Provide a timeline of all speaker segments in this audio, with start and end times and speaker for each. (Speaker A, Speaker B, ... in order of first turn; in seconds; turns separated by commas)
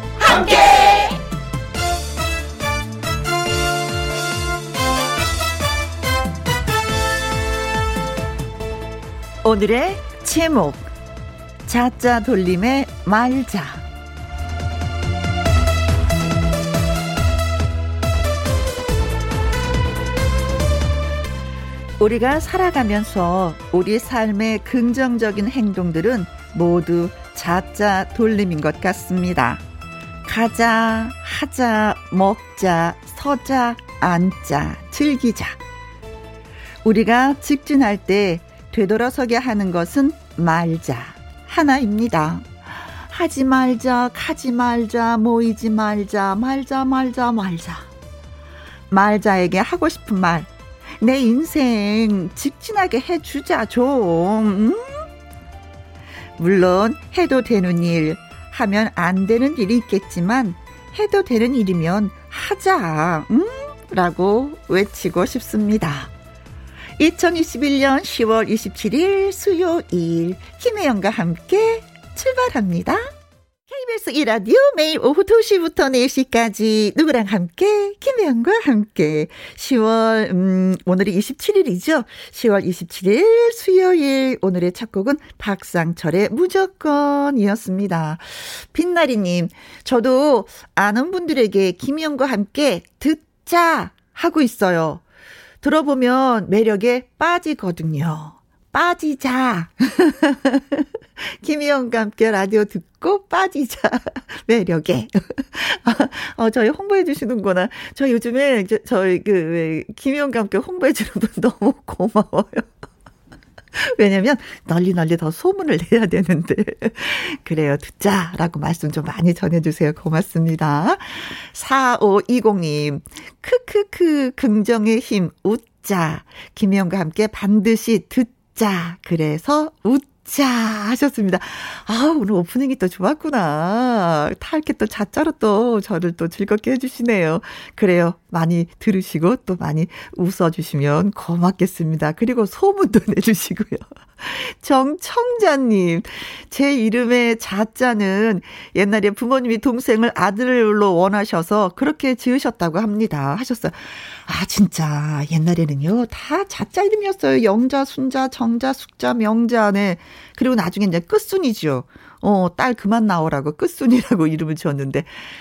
Speaker A: 9.4-10.8, Speaker A: 11.7-13.8, Speaker A: 22.0-29.6, Speaker A: 30.2-35.6, Speaker A: 36.8-42.4, Speaker A: 43.1-47.8, Speaker A: 48.9-50.5, Speaker A: 51.0-55.0, Speaker A: 56.4-66.1, Speaker A: 67.0-73.0, Speaker A: 73.7-95.0, Speaker A: 95.6-100.8, Speaker A: 101.4-112.7, Speaker A: 113.7-165.1